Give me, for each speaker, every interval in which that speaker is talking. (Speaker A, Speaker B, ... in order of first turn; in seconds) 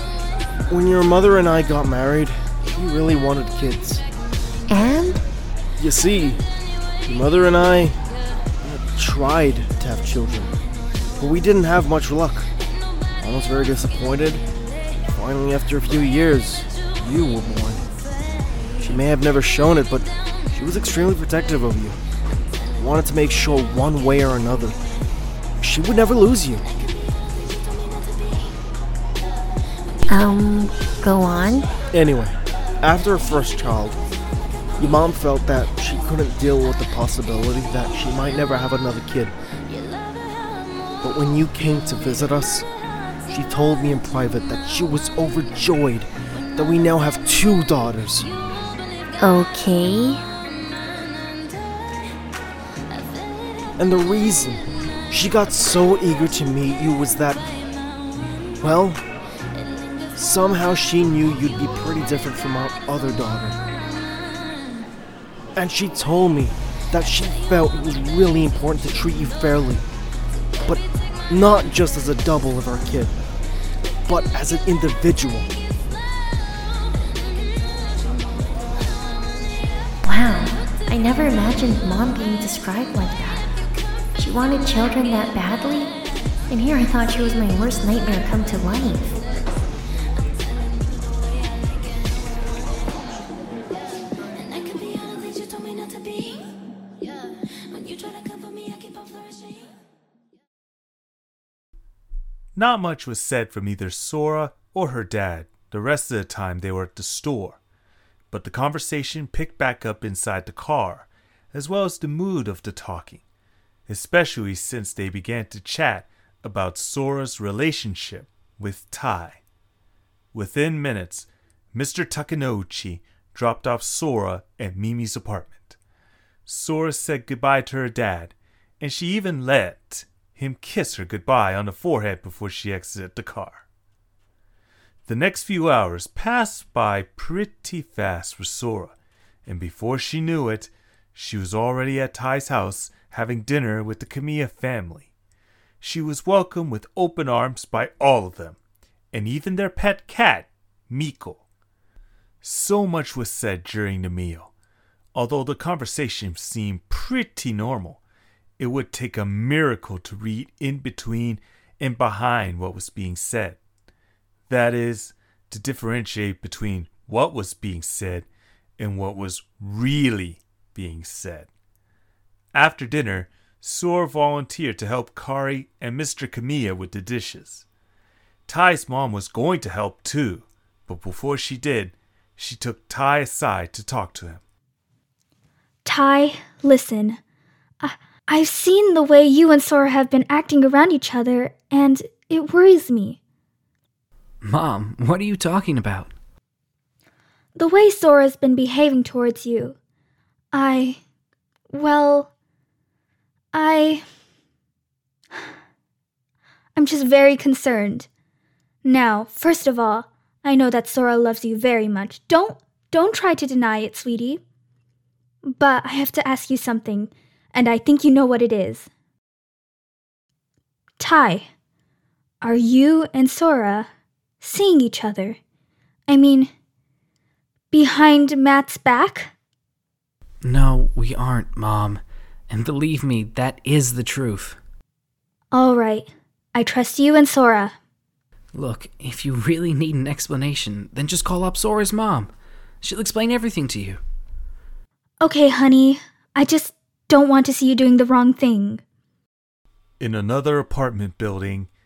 Speaker A: 0.7-4.0, 5.8-6.4, 7.0-8.0, 8.6-10.5, 11.2-12.5, 13.2-14.4, 15.1-17.8, 18.8-22.0, 22.8-24.8, 25.6-26.6, 31.9-34.0, 34.8-39.3, 41.0-42.7, 43.3-48.3, 53.8-57.5, 58.6-59.0, 60.1-63.6, 65.5-69.8, 70.6-73.2, 74.0-75.5
Speaker B: 4.7-5.2, 30.1-31.7, 49.2-50.2, 80.0-83.5, 84.2-85.9, 86.5-89.2
Speaker C: 102.5-107.6, 108.3-113.2, 113.9-119.4, 120.3-125.8, 126.5-133.6, 135.1-145.1, 145.8-148.6, 149.1-151.4, 152.4-154.5, 155.1-158.0, 158.6-163.6, 164.5-168.3, 168.8-171.5, 172.5-177.6, 178.5-184.4, 250.0-251.7
Speaker D: 185.8-187.2, 187.8-193.2, 197.6-199.8, 200.5-201.0, 201.7-202.3, 203.5-204.0, 206.8-208.1, 208.8-214.4, 215.4-218.9, 221.0-221.5, 222.4-223.9, 224.4-225.4, 226.1-226.5, 227.7-229.3, 235.5-237.7, 245.2-248.8
Speaker E: 194.4-196.1, 230.4-234.6, 238.5-244.0